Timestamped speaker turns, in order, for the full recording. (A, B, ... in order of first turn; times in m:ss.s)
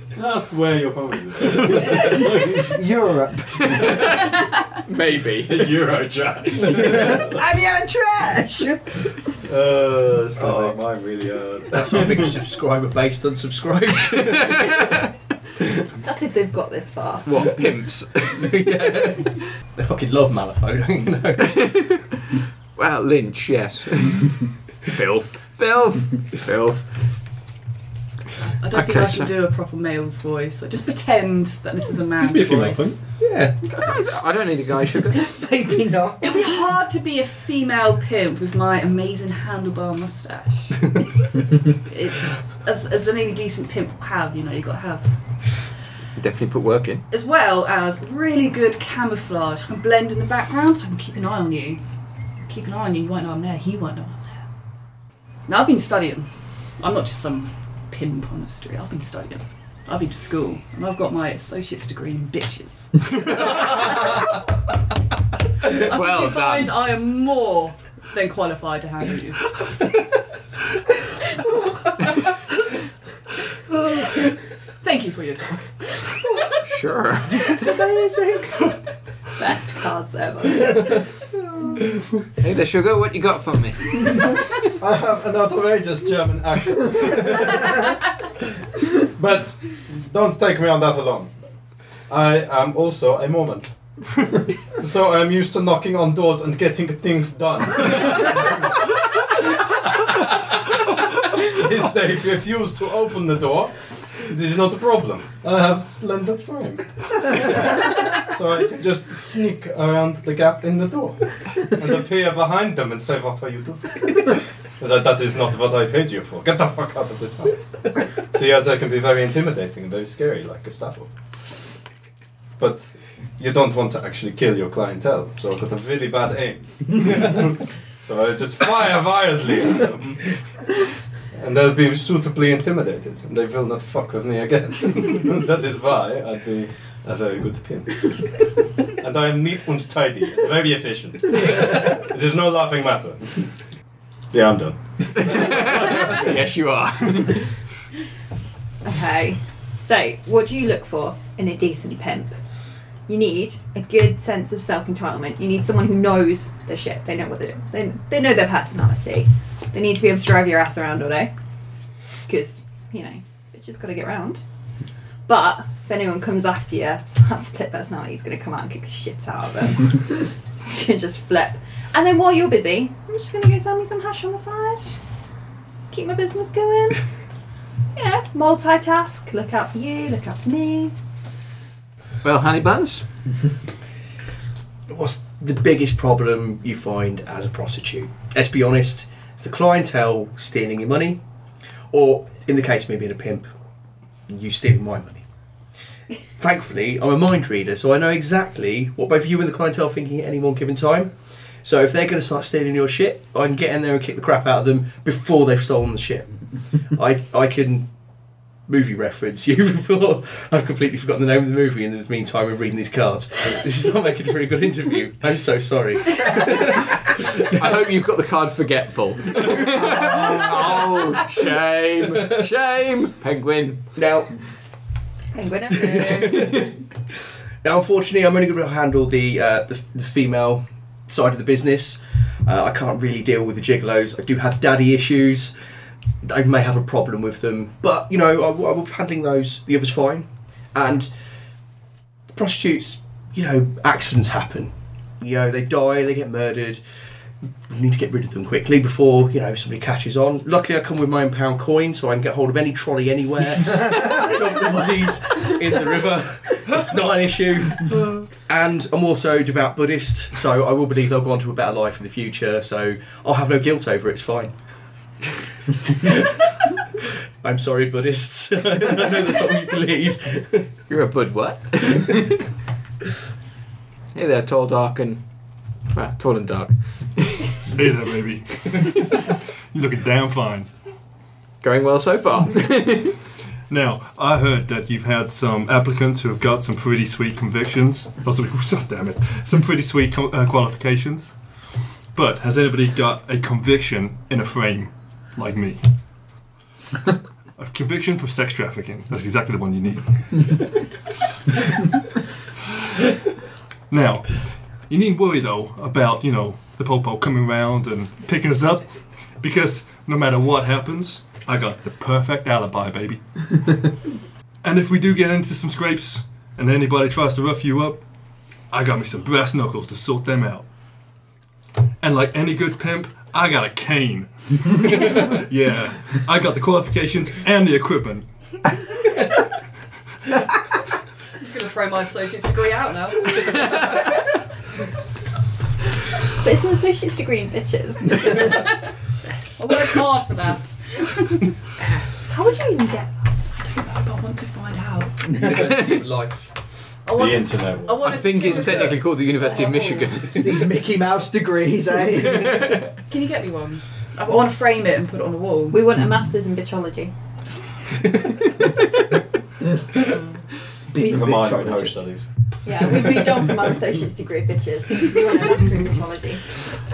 0:00.1-0:02.8 A
0:01.8-0:04.0 B
0:03.7-0:05.8 C
0:05.4-0:07.4 A
0:06.7-0:09.0 B
0:09.4-0:12.3 A
0:10.4-0:10.8 D
0:11.7-0:15.0 D
0:14.1-0:15.1 C
0:16.0-0:17.4 E
0:17.2-0:19.0 C
0:18.3-0:21.8 D
0:21.4-0:26.9 C
0:28.6-0:33.0 F
0:28.7-0:29.3 C
0:32.2-0:33.0 G
0:33.2-0:33.6 D
0:33.7-0:35.3 C
0:35.2-0:36.6 B
0:36.2-0:45.1 F
0:46.2-0:47.0 C
0:47.1-0:51.8 F
0:52.4-0:54.4 F
0:55.5-1:04.3 F
1:05.7-1:09.4 F
1:05.9-1:06.8 C
1:14.8-1:15.7 F
1:16.6-1:17.8 C
1:17.5-1:18.7 B
1:19.4-1:21.1 E
1:22.4-1:24.4 C
1:24.8-1:27.9 A
1:29.0-1:31.3 A
1:32.1-1:33.7 A
1:34.7-1:38.8 A
1:39.6-2:01.1 A
2:02.6-2:10.3 A
2:11.3-2:18.3 A
2:18.8-2:23.5 A
2:24.3-2:26.3 A
2:25.2-2:27.5 C
2:28.8-2:32.4 E
2:33.1-2:41.3 E
2:42.3-2:44.4 E
2:45.3-2:55.0 E
2:55.9-2:57.0 E
2:58.0-3:00.9 E
3:02.2-3:03.0 C
3:04.9-3:11.2 D
3:11.9-3:13.5 D
3:14.3-3:15.2 D
3:16.4-3:21.1 D
3:21.6-3:26.3 D
3:26.9-3:27.9 D
3:28.7-3:37.6 D
3:37.4-3:43.8 C
3:39.4-3:40.8 D
3:42.2-3:42.4 D
3:44.0-3:44.3 D
3:45.3-3:46.6 E
3:45.8-3:46.8 D
3:47.6-3:55.5 D
3:56.2-4:01.1 D
4:02.3-4:06.8 D
4:07.7-4:24.5 D
4:25.8-4:26.5 D
4:27.4-4:30.7 D
4:30.9-4:32.4 C
4:34.1-4:35.2 C
4:35.9-4:37.6 C
4:37.7-4:40.7 G
4:41.6-4:43.2 C
4:43.7-4:51.3 G
4:52.1-4:55.8 G
4:57.6-5:00.8 G
5:03.9-5:13.9 G
5:14.6-5:18.0 G
5:18.7-5:20.6 G
5:22.0-5:28.3 G
5:31.4-5:34.1 F
5:36.3-5:38.6 E
5:39.6-5:41.5 F
5:42.2-5:43.2 E
5:43.5-5:45.3 F
5:45.3-5:46.4 D
5:45.6-5:46.0 C
5:47.1-5:50.2 F
5:47.1-5:48.2 A
5:48.0-5:50.6 C
5:50.3-5:52.8 B
5:52.3-5:52.8 C
5:53.1-5:55.8 F
5:55.7-5:57.1 E
6:00.9-6:02.0 B
6:01.0-6:02.2 A
6:02.6-6:06.5 E